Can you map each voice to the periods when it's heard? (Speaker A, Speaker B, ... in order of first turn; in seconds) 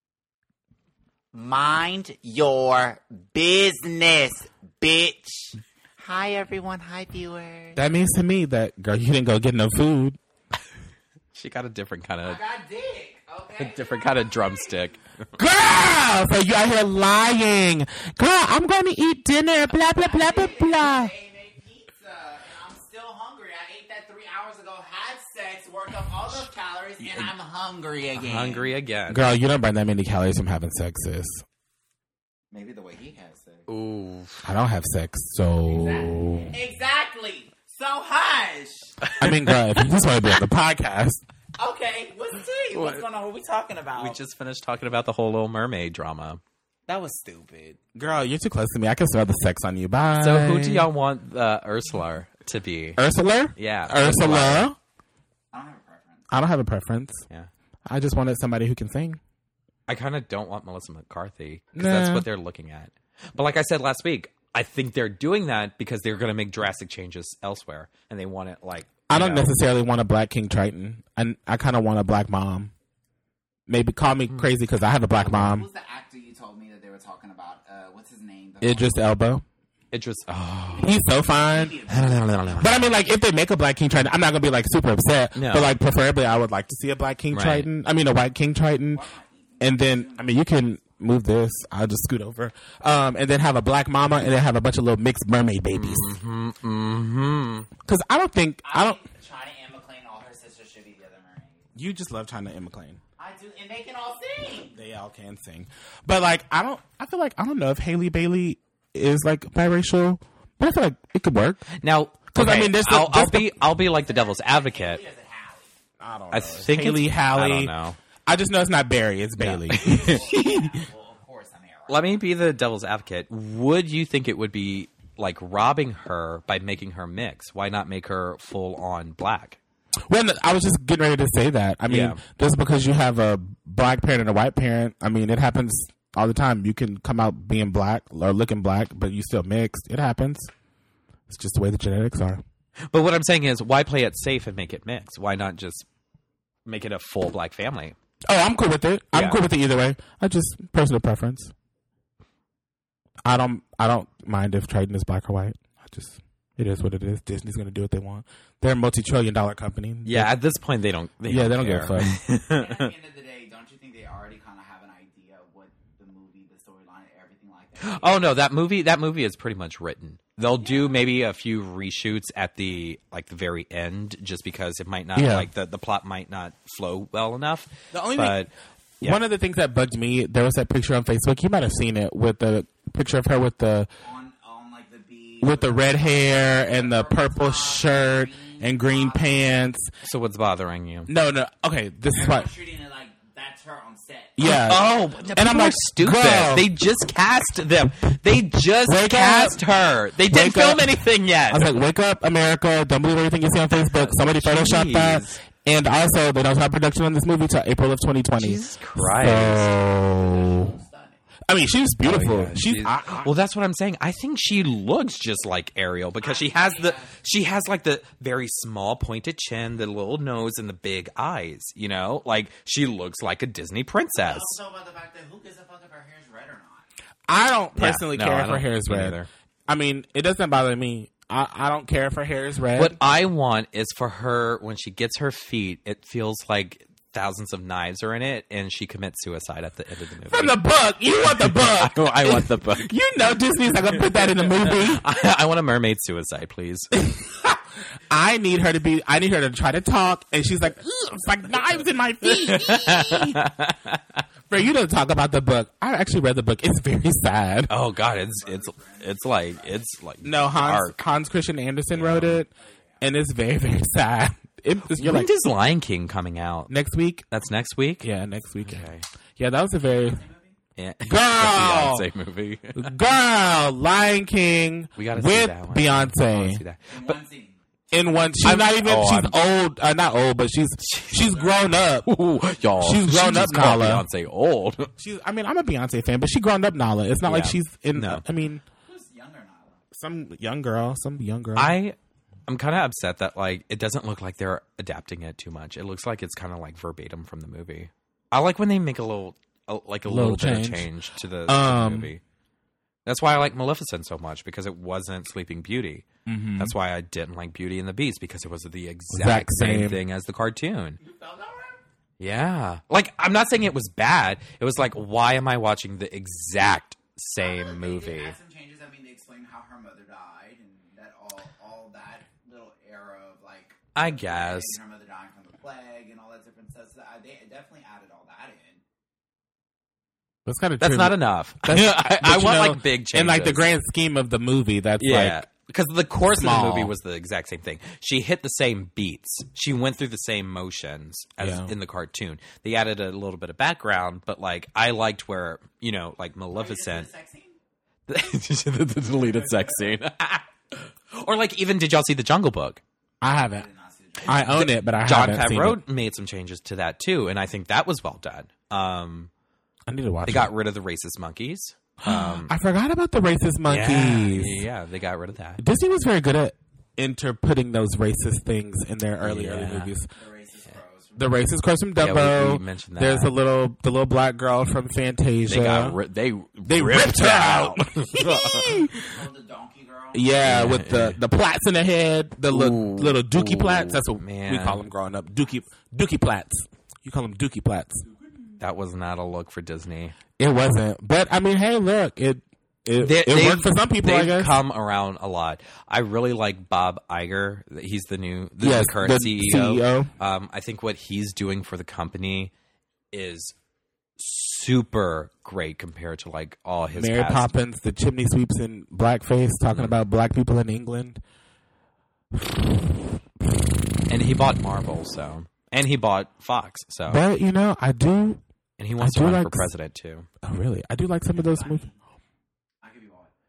Speaker A: 1.3-7.8, 12.2-14.9, 19.9-28.7, 32.5-33.6, 35.7-39.0, 41.5-44.2, 46.9-47.8, 55.5-56.2, 75.4-78.9, 80.8-82.8, 88.9-90.3, 98.6-101.7, 103.2-104.8, 114.0-115.8, 119.7-122.2, 162.5-168.2, 170.6-171.0, 184.0-189.6, 192.1-194.4, 209.8-211.2, 216.2-217.1, 224.2-226.9, 258.0-259.9, 269.9-270.6, 276.9-277.6, 288.8-289.8, 311.0-311.8, 317.4-328.8, 346.5-347.6, 349.2-349.8, 353.5-354.6, 370.1-371.4, 379.0-380.5, 421.3-422.0, 422.8-423.3
Speaker B: 7.7-10.2, 15.4-21.1, 29.1-31.4, 34.4-36.5, 39.2-41.2, 47.9-50.9, 53.0-54.8, 56.3-57.2, 57.9-59.2, 61.7-62.2, 69.1-72.7, 73.7-75.7, 78.6-79.4, 80.8-81.8, 82.6-89.1, 89.6-96.2, 97.8-99.0, 101.7-103.0, 104.7-111.6, 112.3-113.6, 116.0-117.7, 118.2-120.8, 130.1-140.5, 141.3-142.4, 148.3-151.5, 153.2-160.3, 161.2-162.2, 175.1-175.5, 177.9-178.4, 179.0-183.9, 185.4-189.9, 191.1-192.5, 194.4-196.7, 198.8-199.6, 200.3-201.0, 201.5-210.8, 211.5-213.3, 227.3-233.0, 240.3-245.0, 248.1-253.4, 254.5-257.7, 260.2-265.3, 266.7-267.2, 268.0-270.2, 271.1-272.1, 272.7-276.6, 277.9-282.1, 282.8-284.0, 285.0-288.6, 289.9-291.7, 300.0-300.9, 301.5-302.1, 306.2-306.7, 309.1-310.0, 330.4-335.4, 336.2-336.9, 341.4-341.7, 353.2-353.7, 354.2-355.8, 359.9-360.5, 362.0-364.6, 365.6-370.1, 371.2-376.0, 376.6-379.2, 380.1-388.0, 390.4-394.5, 398.6-400.1, 406.9-411.2, 412.3-413.1, 417.1-418.4, 419.0-419.7, 420.4-421.9
Speaker C: 11.3-12.4, 13.6-15.3, 28.2-29.3, 33.7-34.4, 39.0-39.5, 42.7-43.0, 43.9-46.4, 50.2-53.0, 53.5-54.7, 59.9-69.5, 75.2-75.5, 79.9-80.9, 81.9-82.9, 85.3-85.7, 87.3-87.7, 95.7-97.7, 111.7-115.0, 116.3-118.0, 119.4-120.2, 121.9-129.6, 131.9-132.2, 142.9-145.9, 146.7-147.9, 149.1-149.4, 160.0-162.9, 167.8-179.2, 190.0-191.1, 194.4-201.8, 203.8-205.4, 208.4-209.7, 212.0-224.6, 227.8-229.3, 232.8-240.6, 241.3-242.9, 243.7-247.1, 252.2-254.2, 257.7-261.0, 261.9-262.4, 264.9-266.7, 267.3-268.1, 268.6-269.1, 270.8-272.9, 274.9-277.2, 278.4-279.4, 280.8-281.5, 282.0-284.9, 287.2-288.2, 291.6-291.9, 292.5-302.2, 303.1-311.0, 312.2-318.4, 323.9-324.8, 330.8-333.7, 335.0-347.1, 348.1-352.8, 354.3-359.3, 360.2-362.5, 363.6-365.6, 369.2-369.9, 371.9-373.3, 375.5-378.8, 380.4-381.2, 382.5-384.8, 388.6-390.1, 393.0-402.5, 403.1-403.6, 404.2-407.5, 414.1-417.2, 418.8-420.3